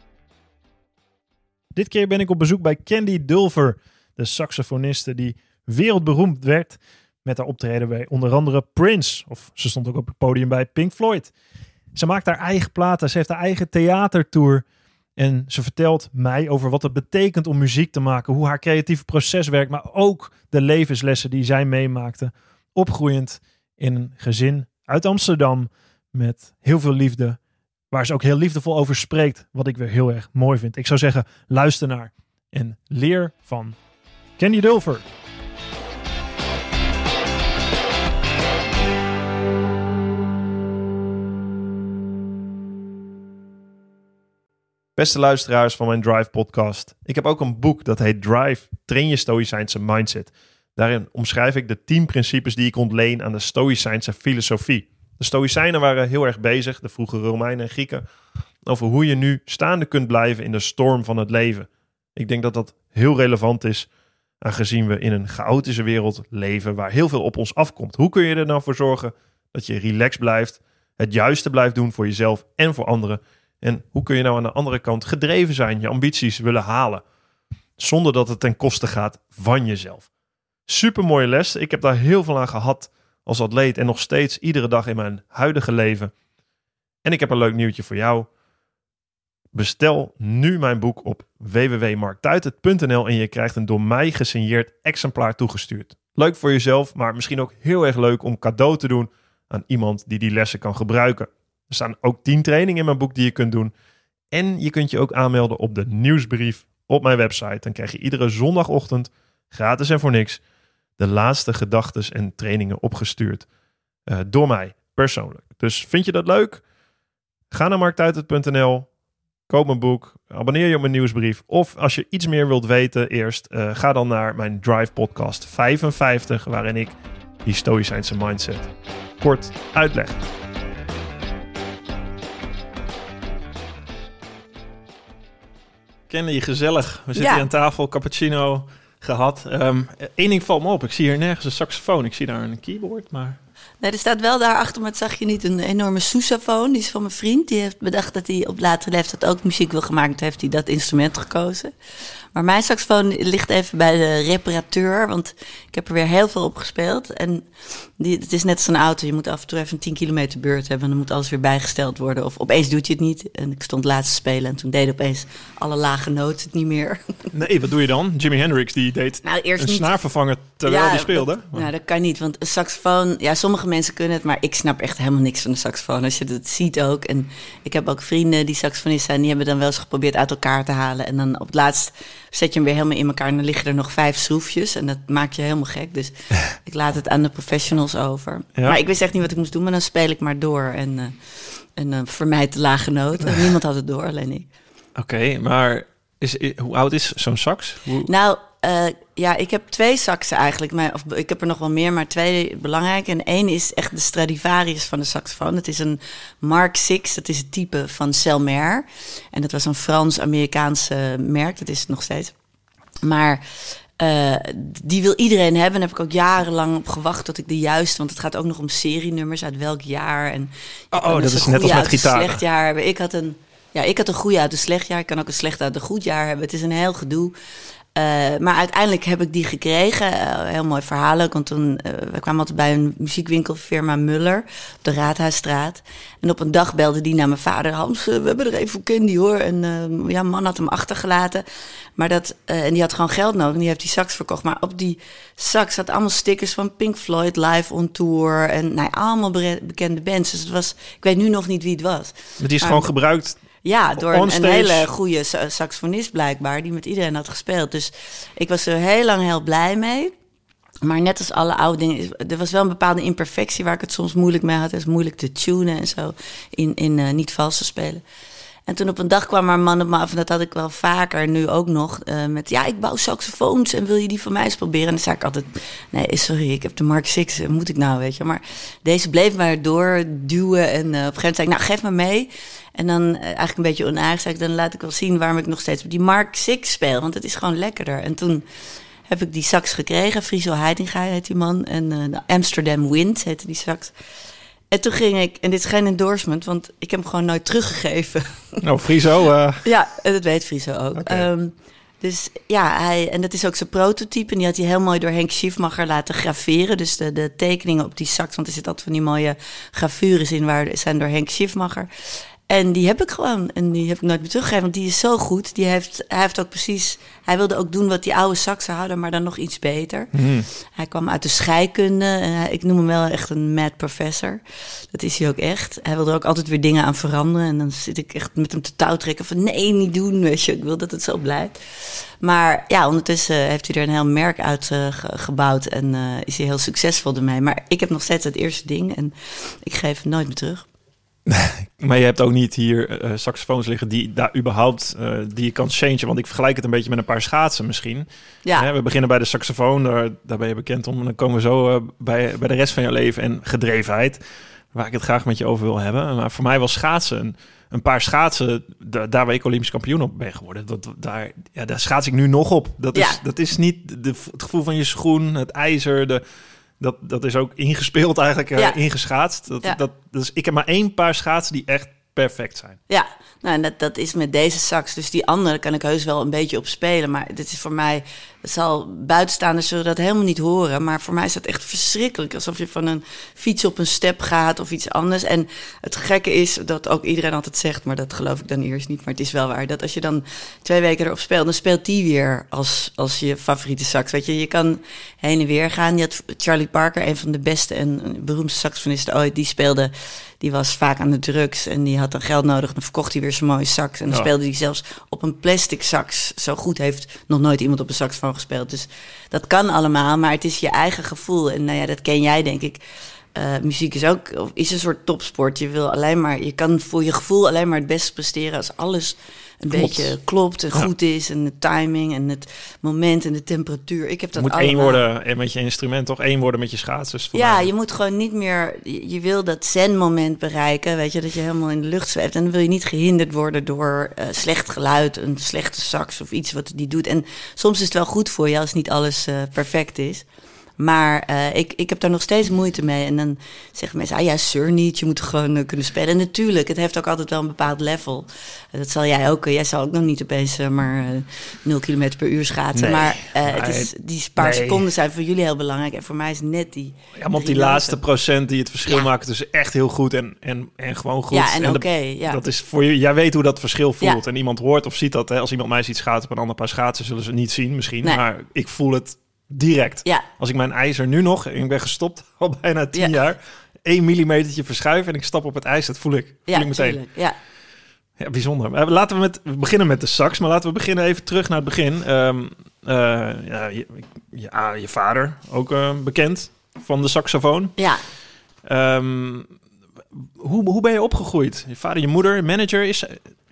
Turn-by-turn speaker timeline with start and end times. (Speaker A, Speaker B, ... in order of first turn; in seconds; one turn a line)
Speaker A: 1.7-11.3
Speaker A: 11.9-14.6
Speaker A: 15.2-27.4
Speaker A: 27.9-33.8
Speaker A: 34.4-35.0
Speaker A: 45.0-58.0
Speaker A: 58.6-63.9
Speaker A: 64.4-77.0
Speaker A: 77.8-80.1
Speaker A: 80.7-86.1
Speaker A: 87.0-88.3
Speaker A: 89.5-103.7
Speaker A: 104.3-110.4
Speaker A: 111.0-113.5
Speaker A: 114.1-116.6
Speaker A: 117.5-118.9
Speaker A: 119.5-130.2
Speaker B: 136.1-143.4
Speaker C: 137.2-137.4
Speaker C: 143.8-151.7
Speaker C: 152.3-157.5
Speaker C: 158.0-167.1
Speaker B: 167.3-171.7
Speaker C: 169.2-169.9
Speaker C: 170.7-194.5
Speaker B: 194.9-198.1
Speaker C: 198.0-212.3
Speaker C: 213.0-213.4
Speaker C: 214.0-227.3
Speaker B: 220.9-222.4
Speaker C: 227.9-241.4
Speaker C: 241.9-252.8
Speaker B: 252.4-253.4
Speaker C: 253.6-260.1
Speaker B: 254.0-254.9
Speaker C: 260.8-268.0
Speaker C: 268.7-288.4
Speaker C: 289.1-293.9
Speaker C: 294.7-298.6
Speaker B: 298.6-299.6
Speaker C: 299.6-311.9
Speaker B: 301.0-301.2
Speaker C: 312.5-320.1
Speaker B: 320.1-320.5
Speaker C: 320.7-324.4
Speaker C: 324.9-331.6
Speaker C: 332.2-340.6
Speaker B: 341.3-354.2
Speaker B: 354.7-366.2
Speaker C: 362.9-363.2
Speaker B: 366.8-372.8
Speaker C: 372.9-412.8
Speaker C: 413.3-425.0
Speaker B: 419.7-420.1
Speaker B: 424.4-427.7
Speaker C: 427.3-440.2
Speaker C: 440.8-458.0
Speaker B: 452.7-454.9
Speaker B: 457.1-477.0
Speaker C: 461.3-462.4
Speaker C: 476.5-477.4
Speaker B: 478.2-487.8
Speaker C: 487.8-488.0
Speaker B: 488.6-489.5
Speaker B: 490.4-493.2